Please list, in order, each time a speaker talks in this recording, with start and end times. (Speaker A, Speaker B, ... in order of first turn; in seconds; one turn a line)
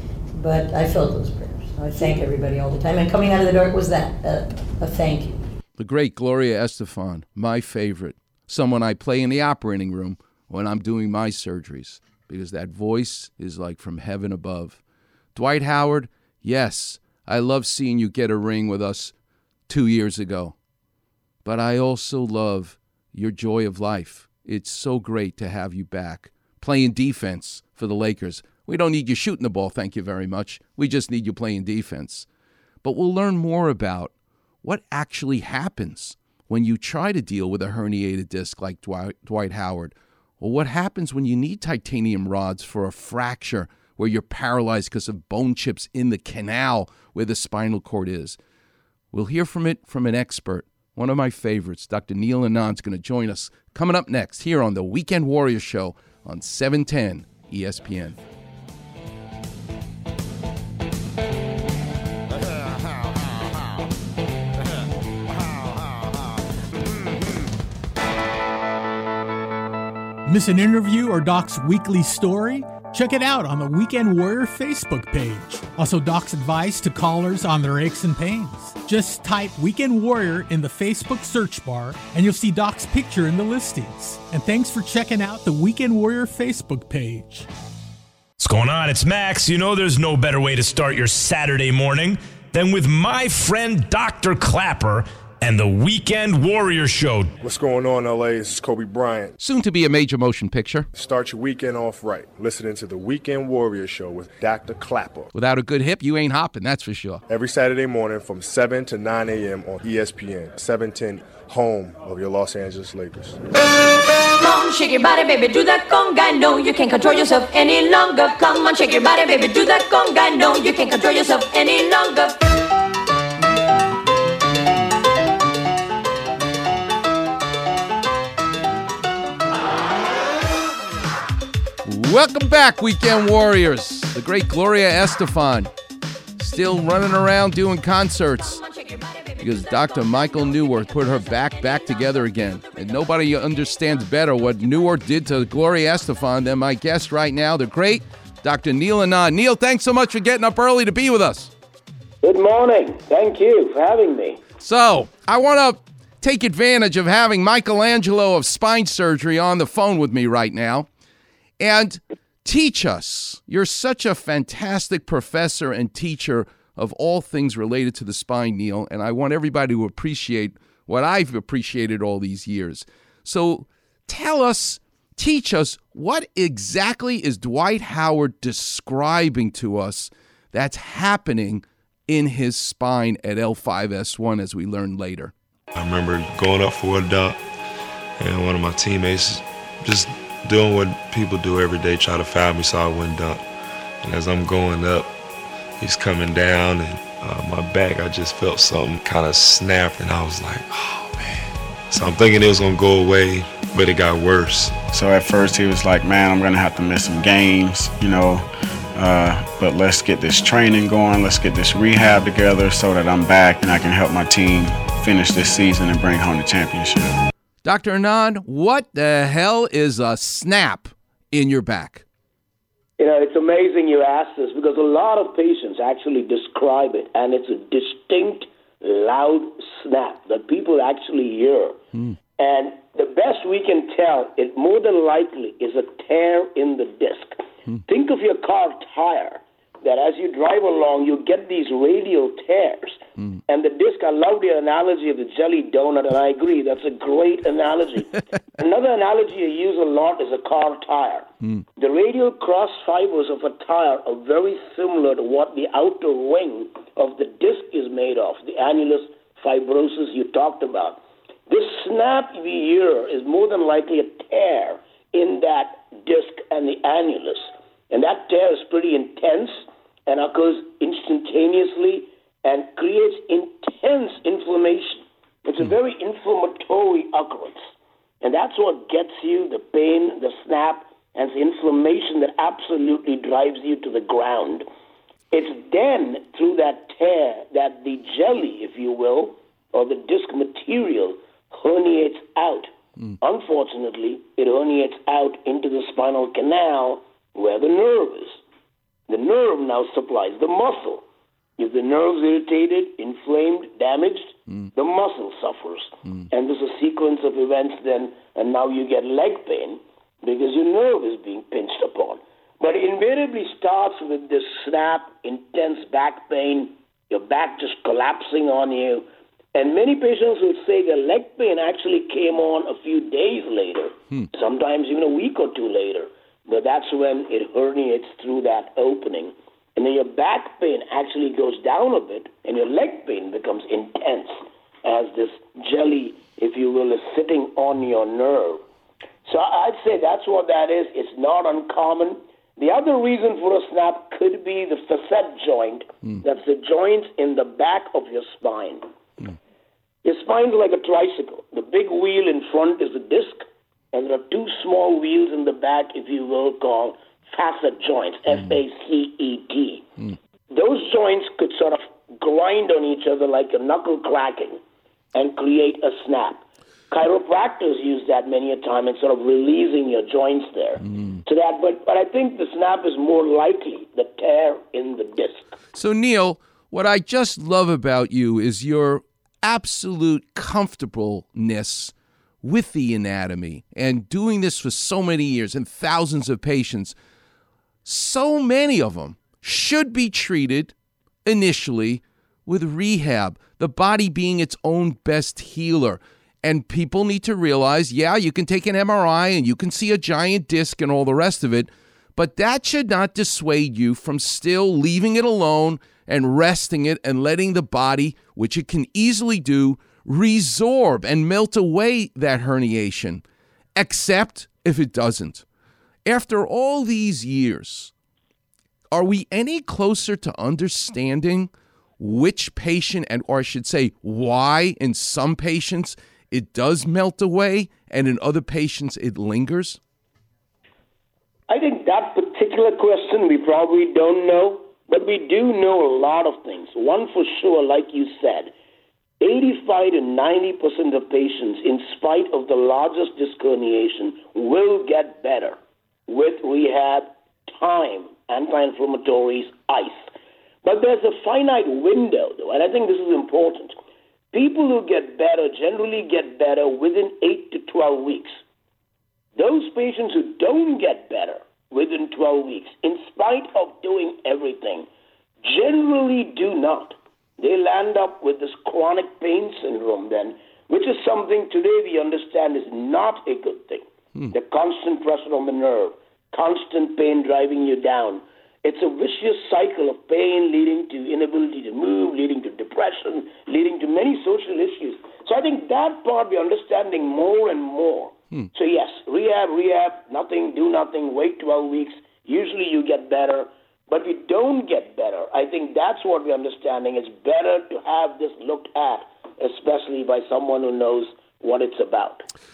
Speaker A: 0.3-5.4
Speaker B: 5.8-14.8
Speaker B: 15.3-19.1
Speaker B: 19.7-20.6
Speaker B: 21.4-32.3
Speaker B: 32.8-48.4
Speaker B: 49.1-58.2
Speaker C: 70.2-87.5
Speaker D: 88.4-97.3
Speaker E: 97.4-99.3
Speaker B: 99.4-100.9
Speaker E: 100.9-105.3
Speaker B: 105.3-107.2
Speaker E: 107.3-113.4
Speaker F: 114.4-122.5
Speaker B: 131.8-135.7
Speaker B: 136.4-138.6
Speaker F: 138.6-140.5
Speaker B: 139.4-151.5
Speaker G: 152.2-154.4
Speaker B: 154.6-160.9
Speaker B: 161.6-185.3
Speaker H: 185.7-187.4
Speaker H: 188.2-193.4
Speaker H: 194.0-195.1
Speaker H: 195.8-201.0
Speaker H: 201.9-204.8
Speaker I: 204.9-217.2
Speaker B: 217.6-222.0
Speaker G: 223.0-231.8
Speaker G: 232.4-277.6
Speaker G: 278.2-284.6
Speaker G: 285.3-292.7
Speaker G: 293.2-298.4
Speaker G: 299.1-301.0
Speaker G: 301.6-338.6
Speaker G: 339.2-348.9
Speaker G: 350.0-359.9
Speaker B: 358.3-358.6
Speaker G: 360.5-364.6
Speaker G: 365.1-375.5
Speaker B: 370.9-371.2
Speaker B: 375.7-386.9
Speaker B: 387.8-390.7
Speaker B: 391.2-413.2
Speaker B: 413.8-415.4
Speaker B: 416.0-417.9
Speaker B: 418.9-429.8
Speaker G: 431.5-438.5
Speaker G: 439.2-445.6
Speaker G: 446.1-450.0
Speaker G: 450.6-453.7
Speaker G: 454.3-458.4
Speaker G: 459.4-464.9
Speaker G: 465.4-502.2